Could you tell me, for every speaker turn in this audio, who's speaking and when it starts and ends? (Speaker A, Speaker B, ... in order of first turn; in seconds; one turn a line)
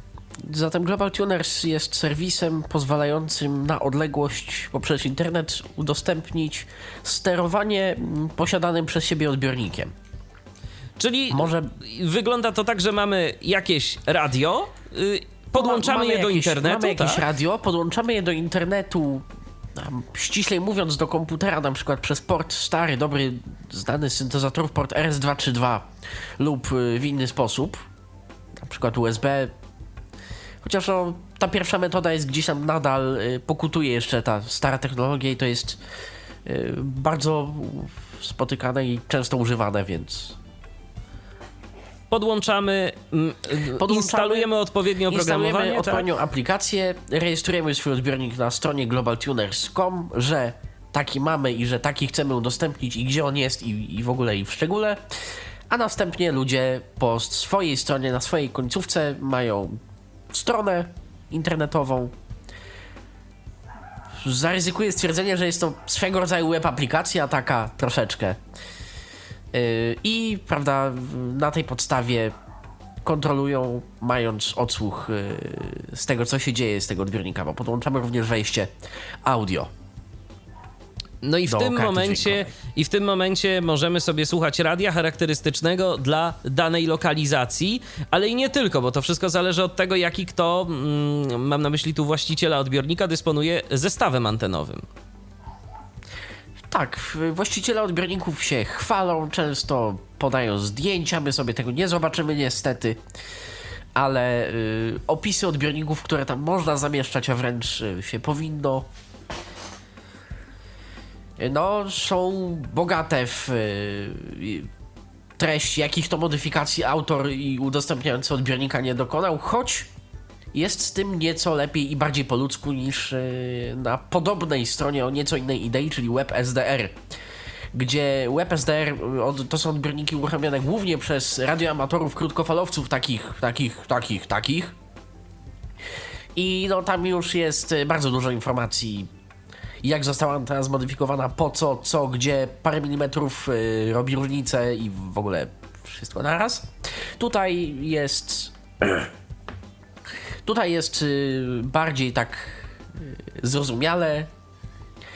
Speaker A: 0.4-9.9
Speaker B: 11.0-17.2
Speaker A: 11.3-11.7
Speaker A: 15.5-25.9
Speaker A: 26.4-27.8
Speaker A: 28.6-29.5
Speaker A: 30.6-35.8
Speaker A: 36.5-40.4
Speaker B: 42.1-46.0
Speaker A: 43.8-44.5
Speaker A: 45.1-55.0
Speaker A: 55.7-59.8
Speaker A: 60.3-62.1
Speaker A: 64.2-68.4
Speaker A: 69.5-72.3
Speaker A: 73.0-78.7
Speaker A: 79.2-79.7
Speaker B: 81.2-94.8
Speaker A: 81.5-82.5
Speaker A: 96.7-103.0
Speaker A: 104.0-108.9
Speaker A: 111.4-114.7
Speaker A: 115.4-119.9
Speaker A: 120.5-126.9
Speaker A: 127.7-134.7
Speaker A: 136.3-139.1
Speaker A: 139.8-148.5
Speaker A: 150.4-154.3